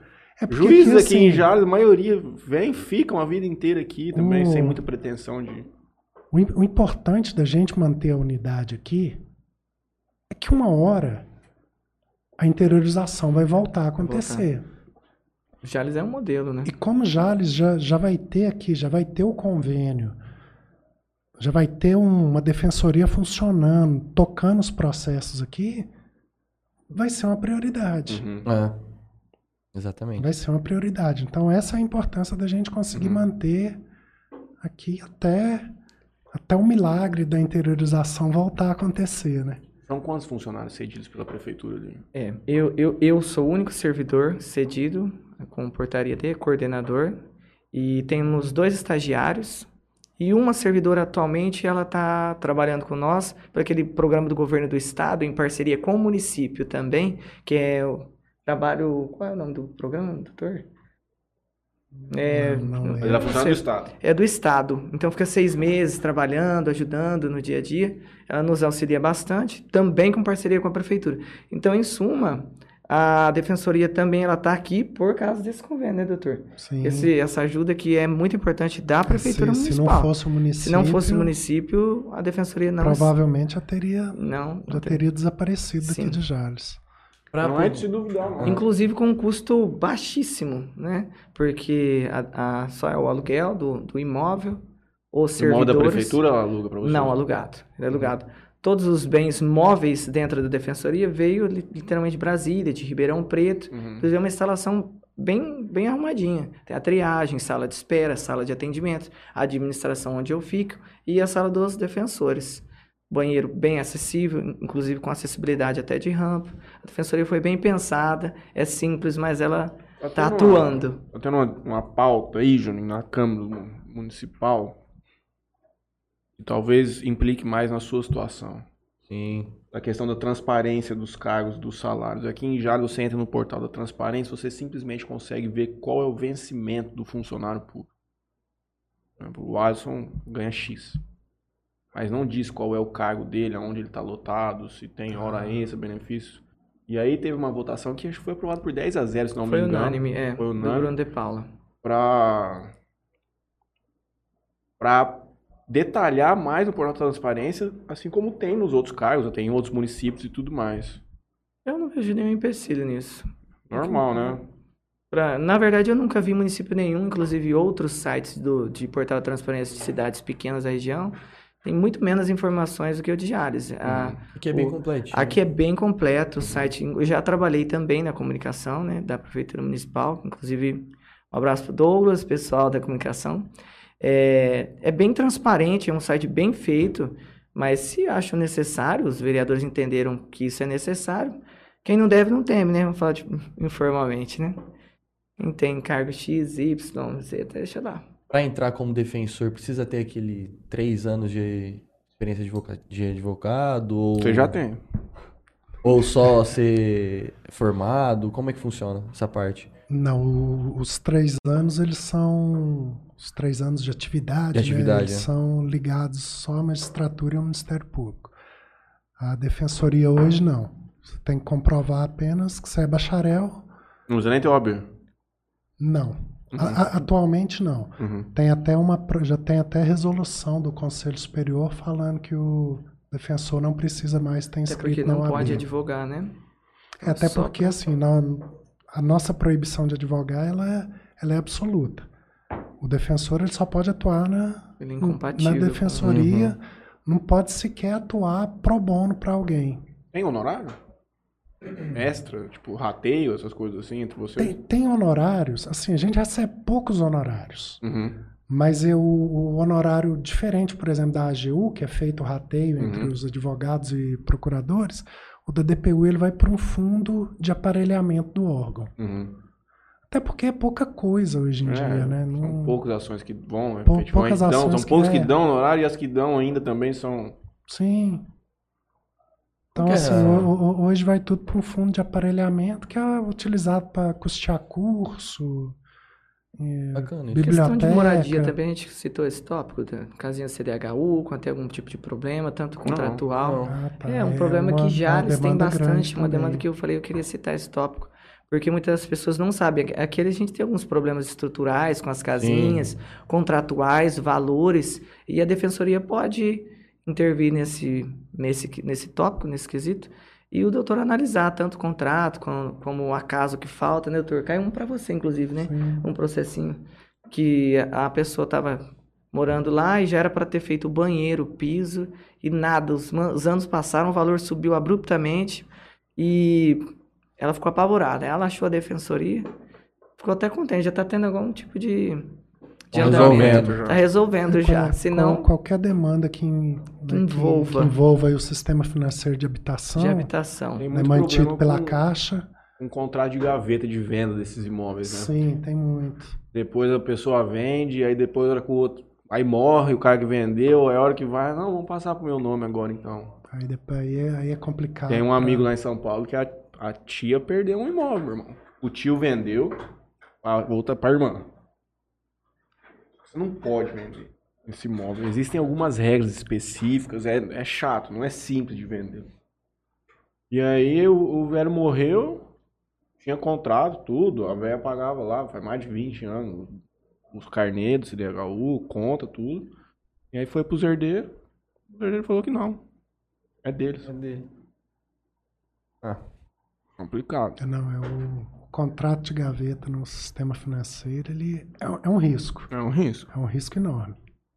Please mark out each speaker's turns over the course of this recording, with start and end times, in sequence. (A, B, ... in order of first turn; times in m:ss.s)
0:00.4-0:01.5 A
0:00.5-0:05.7 B
0:04.1-0:04.8 A
0:06.3-0:09.2 A
0:10.3-0:11.2 A
0:12.4-0:14.6 A
0:14.0-0:14.5 C
0:15.6-0:16.7 C
0:16.6-0:20.2 A
0:21.4-0:25.9 A
0:26.9-0:28.2 A
0:28.1-0:28.5 B
0:28.4-0:28.8 D
0:29.7-0:30.3 D
0:30.2-0:33.8 A
0:32.9-0:33.2 B
0:34.6-0:35.7 A
0:36.3-0:39.6 A
0:39.8-0:42.0 B
0:42.1-0:47.2 C
0:47.7-1:00.6 C
1:01.9-1:03.3 A
1:02.1-1:23.1 C
1:03.0-1:03.9 B
1:16.6-1:17.1 A
1:19.0-1:21.3 A
1:22.8-1:26.8 A
1:24.1-1:25.0 C
1:25.8-1:26.2 C
1:27.3-1:27.8 D
1:27.4-1:28.6 B
1:28.4-1:36.2 C
1:35.4-1:37.2 B
1:36.8-2:01.0 C
1:43.7-1:44.1 B
2:00.0-2:04.8 B
2:06.4-2:08.6 B
2:09.1-2:09.5 D
2:09.7-2:17.9 B
2:19.2-2:21.0 B
2:21.9-2:30.9 B
2:29.4-2:31.5 C
2:31.8-2:32.7 B
2:34.8-2:41.0 B
2:41.6-2:44.4 C
2:43.7-2:44.4 B
2:45.1-3:03.5 C
2:53.8-2:54.2 B
2:54.3-2:55.4 D
3:04.0-3:14.6 C
3:15.4-3:18.0 C
3:18.3-3:24.6 D
3:24.2-3:24.8 B
3:25.8-3:29.7 D
3:29.9-3:38.3 A
3:34.5-3:35.3 D
3:39.2-3:43.6 A
3:44.1-3:44.9 B
3:45.8-3:55.6 A
3:46.5-3:47.0 B
3:48.0-3:48.3 B
3:54.6-3:56.3 C
3:57.0-4:02.1 A
3:57.0-3:57.8 C
4:02.8-4:09.8 A
4:04.8-4:06.1 C
4:06.0-4:06.6 D
4:10.1-4:10.8 B
4:11.9-4:14.5 B
4:14.4-4:17.8 A
4:17.8-4:18.2 B
4:18.5-4:28.9 A
4:22.8-4:23.1 B
4:29.0-4:29.4 B
4:30.1-4:32.8 A
4:31.6-4:37.4 B
4:33.8-4:35.3 A
4:37.7-4:38.2 A
4:39.7-4:45.8 A
4:39.8-4:40.5 D
4:46.6-4:48.5 A
4:46.9-4:47.6 D
4:47.4-5:26.8 C
4:52.8-4:53.2 B
4:53.4-4:53.8 D
4:53.6-4:56.6 A
5:02.4-5:02.9 D
5:15.6-5:16.1 A
5:27.4-5:29.5 C
5:30.2-5:32.3 C
5:32.9-5:35.4 C
5:32.9-5:34.0 B
5:32.9-5:33.8 D
5:34.5-5:40.3 A
5:37.1-5:38.0 C
5:39.9-5:40.8 C
5:40.8-5:42.0 B
5:40.9-5:42.5 A
5:42.8-5:45.3 B
5:45.0-5:46.4 A
5:46.5-5:53.3 B
5:53.5-5:55.7 A
5:55.1-5:59.8 B
6:00.4-6:01.4 B
6:03.3-6:09.3 B
6:10.5-6:12.4 B
6:13.2-6:16.8 B
6:17.3-6:19.7 B
6:20.3-6:21.3 B
6:21.9-6:22.8 B
6:23.6-6:24.1 B
6:24.0-6:24.5 D
6:27.0-6:27.6 B
6:27.6-6:32.7 A
6:32.7-6:33.3 B
6:33.3-6:34.2 A